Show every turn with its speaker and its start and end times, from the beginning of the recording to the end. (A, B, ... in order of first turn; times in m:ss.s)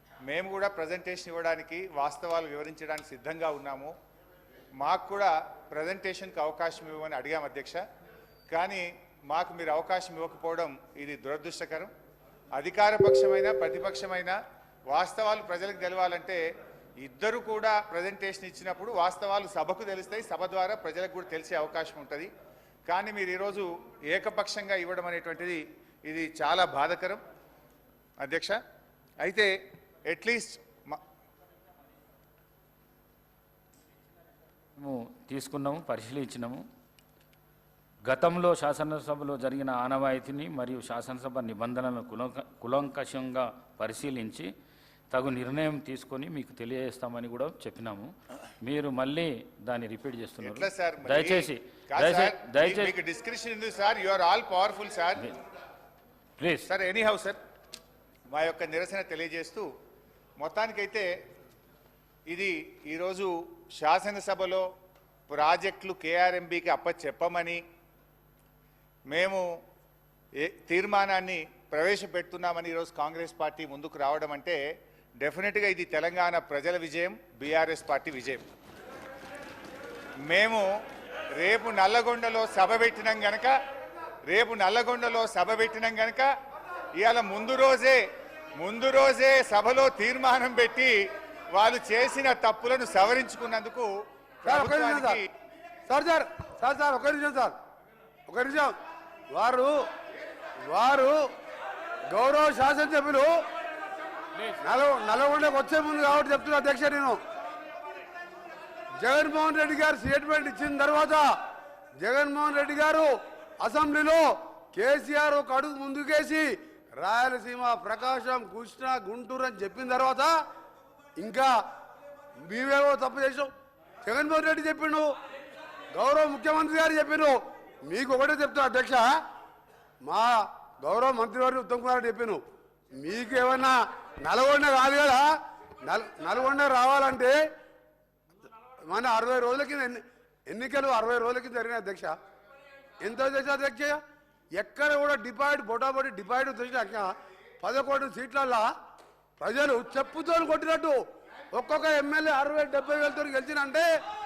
0:00.3-0:03.9 A
0:04.8-0:07.8 A
0:08.5-0:11.9 A
0:12.5-0:14.4 A
0:14.9-0:16.4 A
0:17.0-0:22.3 A
0:22.9-0:27.2 A
0:28.2-0:28.6 A
0:29.2-0:29.5 A
0:30.0-0:31.0 A
0:34.8-0:36.6 B
0:38.0-0:44.5 B
0:45.1-0:53.0 B
0:50.4-0:55.3 A
0:56.4-0:56.7 B
0:56.6-0:57.4 A
0:58.3-0:59.7 A
1:00.4-1:01.1 A
1:02.3-1:04.6 A
1:05.3-1:07.6 A
1:09.1-1:09.4 A
1:10.4-1:14.6 A
1:15.2-1:18.4 A
1:20.3-1:20.7 A
1:21.4-1:23.5 A
1:24.3-1:26.3 A
1:27.0-1:28.0 A
1:28.6-1:31.0 A
1:31.5-1:33.9 A
1:34.4-1:35.3 A
1:34.4-1:35.2 C
1:35.9-1:37.6 C
1:38.3-1:38.7 C
1:39.3-1:39.8 C
1:40.7-1:41.2 C
1:42.1-1:43.3 C
1:44.3-1:44.6 B
1:44.6-1:47.2 C
1:49.0-1:51.3 C
1:52.0-1:56.5 C
1:57.0-2:00.3 C
2:01.2-2:01.5 C
2:02.4-2:03.5 C
2:04.0-2:05.1 C
2:05.9-2:07.3 C
2:07.8-2:09.0 C
2:10.0-2:12.4 C
2:12.9-2:15.3 C
2:15.8-2:17.3 C
2:18.9-2:22.1 C
2:23.0-2:24.0 C
2:24.6-2:28.7 C
2:29.4-2:31.0 C
2:31.5-2:33.8 C